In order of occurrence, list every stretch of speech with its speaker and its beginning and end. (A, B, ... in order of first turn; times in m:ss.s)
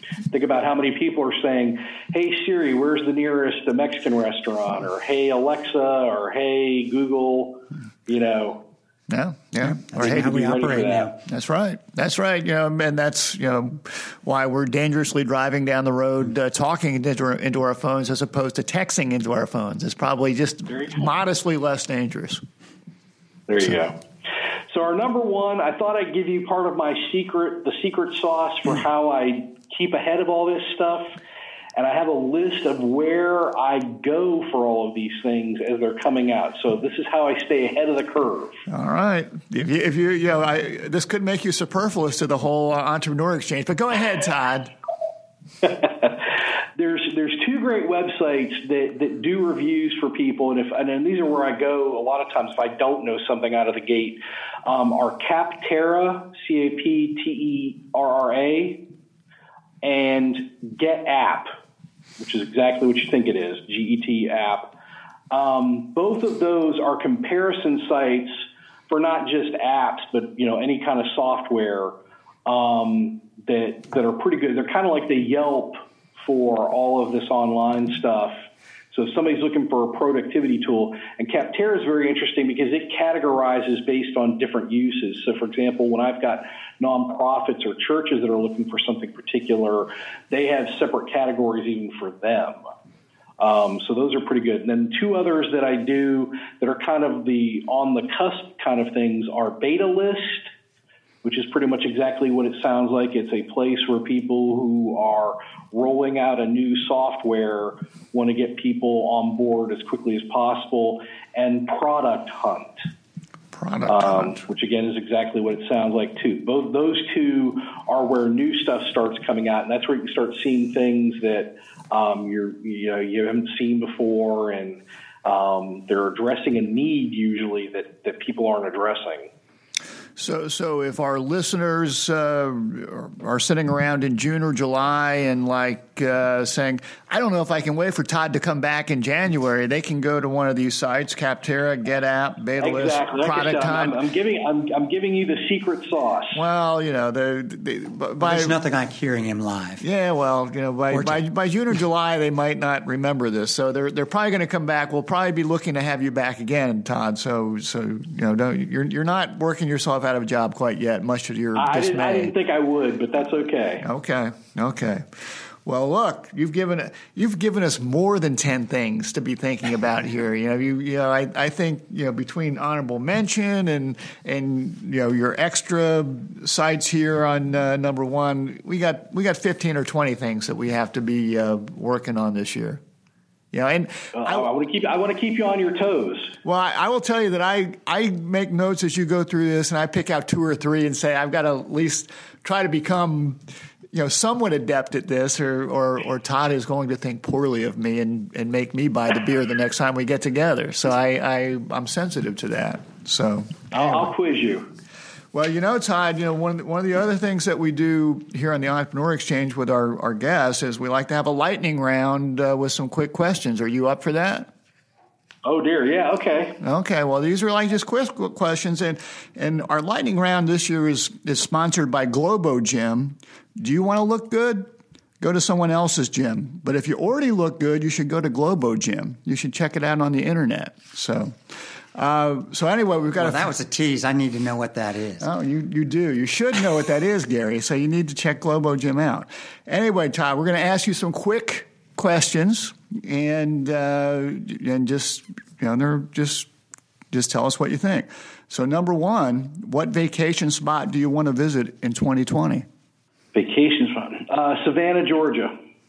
0:00.3-0:08.6 A
0:09.1-0:10.6 B
0:09.6-0:11.2 C
0:10.0-0:11.1 A
0:11.3-0:22.4 B
0:20.7-0:21.0 A
0:23.5-0:24.0 A
0:24.7-0:31.1 A
0:31.8-0:38.6 A
0:38.7-0:44.7 B
0:45.6-0:58.8 A
0:59.8-1:01.5 A
1:02.2-1:04.7 A
1:05.3-1:11.9 A
1:12.5-1:18.3 A
1:18.9-1:32.6 A
1:33.4-1:40.5 A
1:41.2-1:52.8 A
1:53.5-1:54.4 B
1:53.9-2:09.3 A
2:10.2-2:24.0 B
2:22.6-2:26.4 A
2:26.3-2:28.6 B
2:28.2-2:29.8 C
2:29.8-2:42.3 B
2:30.9-2:31.2 C
2:41.6-2:43.8 A
2:43.8-3:02.8 B
3:03.5-3:04.5 B
3:04.2-3:06.3 A
3:06.4-3:13.4 B
3:13.9-3:24.1 B
3:23.7-3:24.7 A
3:25.3-3:34.5 B
3:35.4-3:36.6 A
3:36.6-3:53.5 B
3:53.2-3:55.3 C
3:55.2-4:06.5 B
4:07.1-4:12.7 B
4:13.3-4:15.5 A